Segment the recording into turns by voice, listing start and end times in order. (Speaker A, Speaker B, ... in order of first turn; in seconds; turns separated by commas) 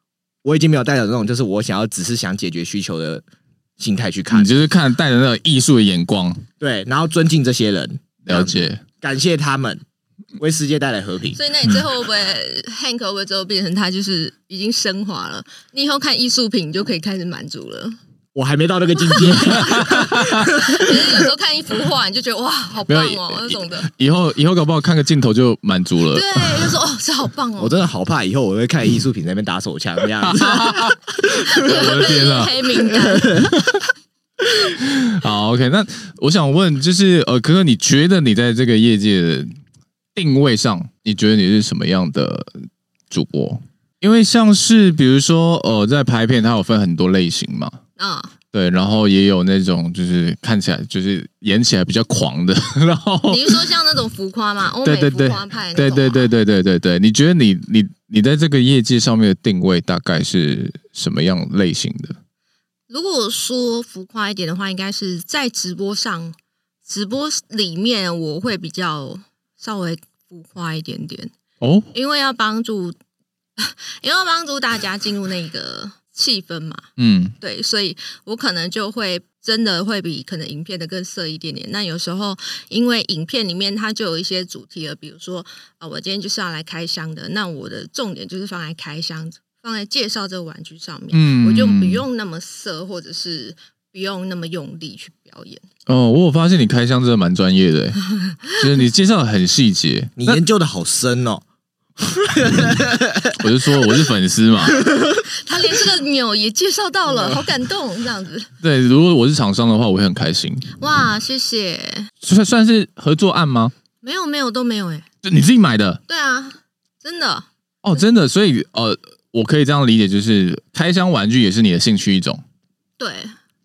Speaker A: 0.4-3.2, Speaker A: 3.8-4.5, Speaker B: 4.3-6.4, Speaker A: 6.6-9.8, Speaker B: 8.2-8.8, Speaker A: 10.4-11.4, Speaker C: 11.3-18.0, Speaker A: 18.3-21.1, Speaker C: 19.0-23.9, Speaker B: 19.5-20.5, Speaker B: 22.9-26.8, Speaker C: 26.1-27.8, Speaker A: 27.6-31.9, Speaker B: 30.2-31.0, Speaker C: 31.4-33.5, Speaker B: 31.5-32.5, Speaker A: 33.0-33.6, Speaker B: 33.4-33.8, Speaker B: 34.6-39.5, Speaker B: 40.1-42.5, Speaker B: 43.1-47.8, Speaker C: 48.0-48.3, Speaker B: 48.5-53.7, Speaker C: 53.3-56.3, Speaker B: 54.8-62.1, Speaker C: 62.9-71.3, Speaker B: 71.6-71.9, Speaker C: 71.9-73.0, Speaker C: 73.6-76.8, Speaker B: 77.0-77.3, Speaker C: 77.4-95.6, Speaker B: 91.1-92.0, Speaker B: 95.8-100.4, Speaker A: 100.2-101.4, Speaker A: 102.0-103.4, Speaker B: 103.4-104.8, Speaker C: 104.8-108.5, Speaker A: 104.9-105.2, Speaker A: 107.1-107.4, Speaker B: 108.6-110.7, Speaker C: 110.8-112.1, Speaker B: 112.2-113.7, Speaker C: 114.0-115.0, Speaker B: 115.2-116.0, Speaker C: 116.1-118.0, Speaker B: 117.8-122.4, Speaker C: 123.0-123.4